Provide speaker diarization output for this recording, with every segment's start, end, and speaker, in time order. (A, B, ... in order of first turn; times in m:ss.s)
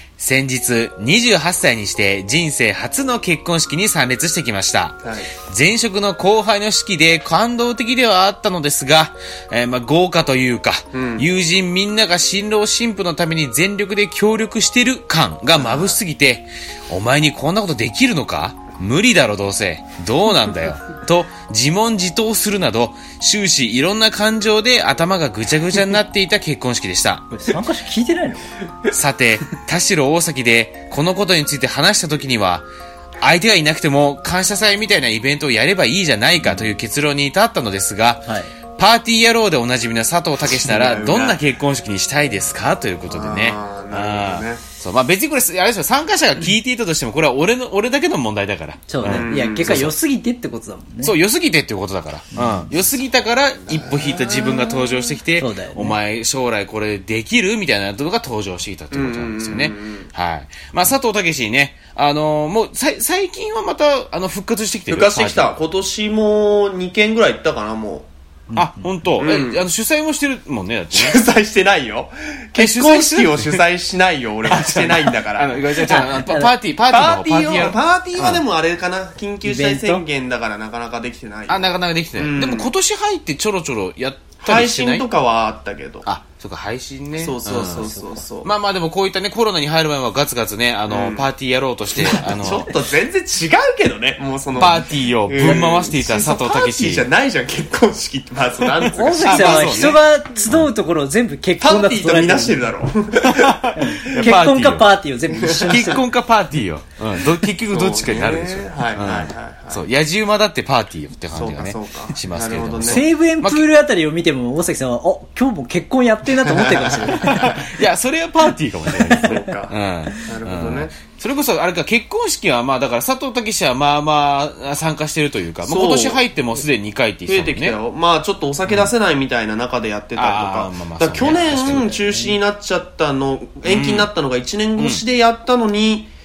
0:00.2-0:27.3 A
0:05.0-0:05.3 B
0:10.9-0:11.3 B
0:15.6-0:16.0 B
0:27.3-0:28.5 C
0:28.9-0:32.6 A
0:33.2-0:49.9 A
0:40.5-0:41.4 B
0:43.1-0:44.6 B
0:48.9-0:51.1 C
0:49.0-0:49.9 B
0:51.0-1:05.5 A
0:52.3-0:52.7 C
0:53.7-0:55.2 B
0:55.4-0:56.0 C
0:58.9-1:00.1 B
1:04.9-1:08.1 B
1:08.5-1:08.9 C
1:08.5-1:11.2 A
1:09.2-1:09.6 B
1:10.9-1:15.6 B
1:12.6-1:13.6 A
1:14.4-1:18.4 A
1:15.8-1:16.5 C
1:16.9-1:22.7 B
1:19.4-1:20.0 C
1:21.5-1:25.0 A
1:24.4-1:26.1 B
1:26.0-1:27.9 A
1:27.2-1:28.5 B
1:27.8-1:28.0 C
1:28.4-1:32.7 A
1:30.9-1:31.3 B
1:31.9-1:40.0 B
1:34.6-1:37.1 A
1:38.7-1:40.7 A
1:38.9-1:42.6 C
1:41.6-1:44.3 B
1:43.2-1:44.9 A
1:43.8-1:46.0 C
1:45.3-1:46.0 B
1:45.6-1:53.6 A
1:47.7-1:49.9 B
1:51.3-1:53.0 B
1:52.8-1:57.7 C
1:56.4-1:57.7 B
1:57.2-2:07.8 A
1:58.9-1:59.3 C
1:59.2-2:00.9 B
2:05.6-2:06.2 B
2:07.3-2:16.1 B
2:10.2-2:12.0 A
2:11.8-2:12.3 C
2:13.6-2:14.1 A